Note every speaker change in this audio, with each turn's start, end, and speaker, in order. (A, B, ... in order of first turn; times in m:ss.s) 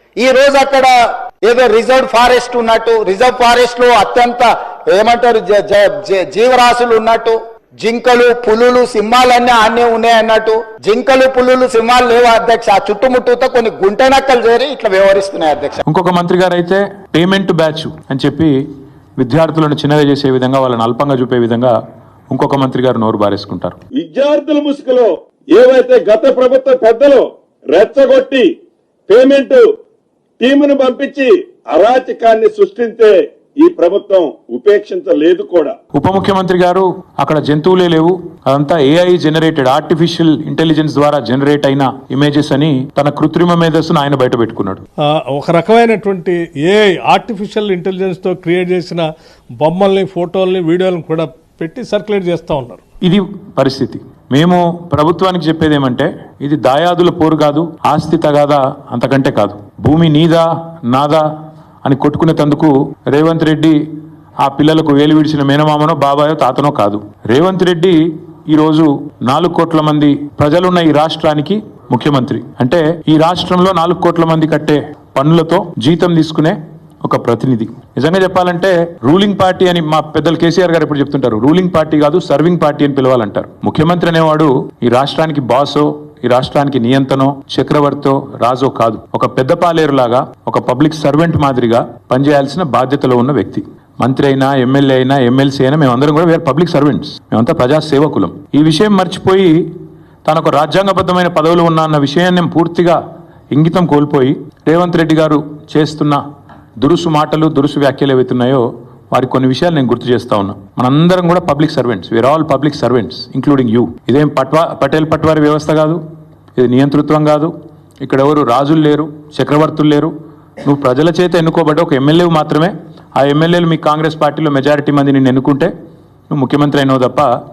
0:00.2-0:00.9 A
0:01.4-0:15.8 A
0:15.8-0:18.6 B
0:19.2-0:21.8 B
0:22.3-0:23.8 B
0:24.0-0:28.5 C
0:29.1-0:29.7 C
0:30.4-0:35.7 C
0:35.9-0:44.8 B
0:45.1-0:49.0 D
0:49.6-0:52.8 D
0:53.0-1:01.2 B
1:01.8-1:03.8 B
1:04.4-1:39.6 B
1:40.2-1:43.0 B
1:43.5-1:46.2 B
1:46.8-1:56.0 B
1:56.6-1:57.5 B
1:58.0-2:00.1 B
2:00.6-2:05.7 B
2:06.3-2:07.3 B